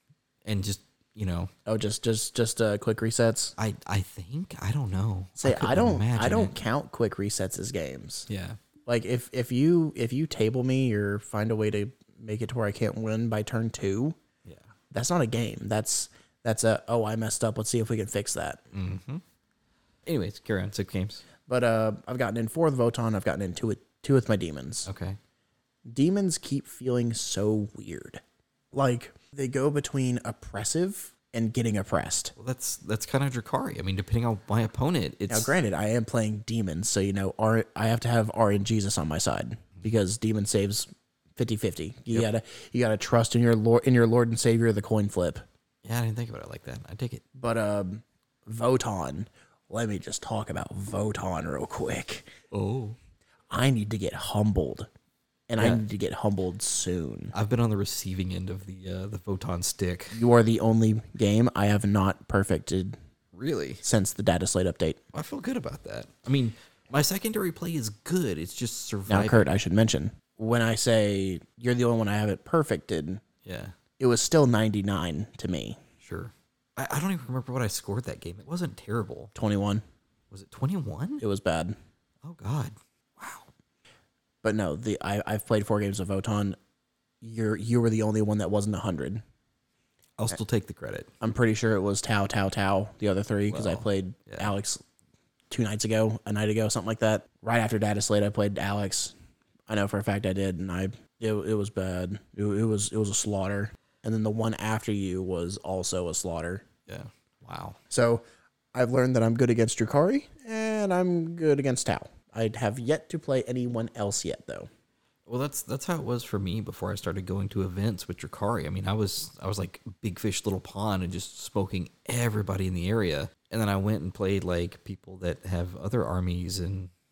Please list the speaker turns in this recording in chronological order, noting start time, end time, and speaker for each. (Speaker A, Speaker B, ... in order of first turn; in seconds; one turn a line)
Speaker A: 0.5-1.5
Speaker B: 1.7-3.5
Speaker A: 3.6-6.6
Speaker B: 5.4-8.3
Speaker A: 8.3-8.6
Speaker B: 8.9-14.2
Speaker B: 14.9-18.6
Speaker A: 18.7-19.2
Speaker A: 20.1-21.2
Speaker B: 21.5-24.9
Speaker A: 24.9-25.2
Speaker B: 25.9-28.2
Speaker B: 28.7-32.3
Speaker A: 32.4-35.5
Speaker B: 35.3-45.5
Speaker A: 45.8-47.2
Speaker B: 47.4-52.3
Speaker A: 52.5-53.0
Speaker B: 53.5-54.9
Speaker B: 55.5-57.3
Speaker A: 57.3-60.2
Speaker B: 60.1-63.0
Speaker A: 63.3-63.8
Speaker B: 63.8-65.0
Speaker A: 65.1-69.5
Speaker B: 69.1-73.2
Speaker A: 73.5-73.7
Speaker B: 74.0-75.8
Speaker A: 76.0-79.3
Speaker B: 79.3-79.8
Speaker A: 80.3-81.2
Speaker B: 81.2-81.8
Speaker A: 82.2-83.5
Speaker B: 84.4-86.6
Speaker B: 87.2-89.2
Speaker A: 90.2-91.1
Speaker B: 91.2-94.8
Speaker A: 93.5-94.5
Speaker B: 95.5-99.2
Speaker B: 99.7-106.6
Speaker A: 106.9-107.8
Speaker B: 107.9-108.2
Speaker B: 108.7-114.7
Speaker A: 115.3-126.9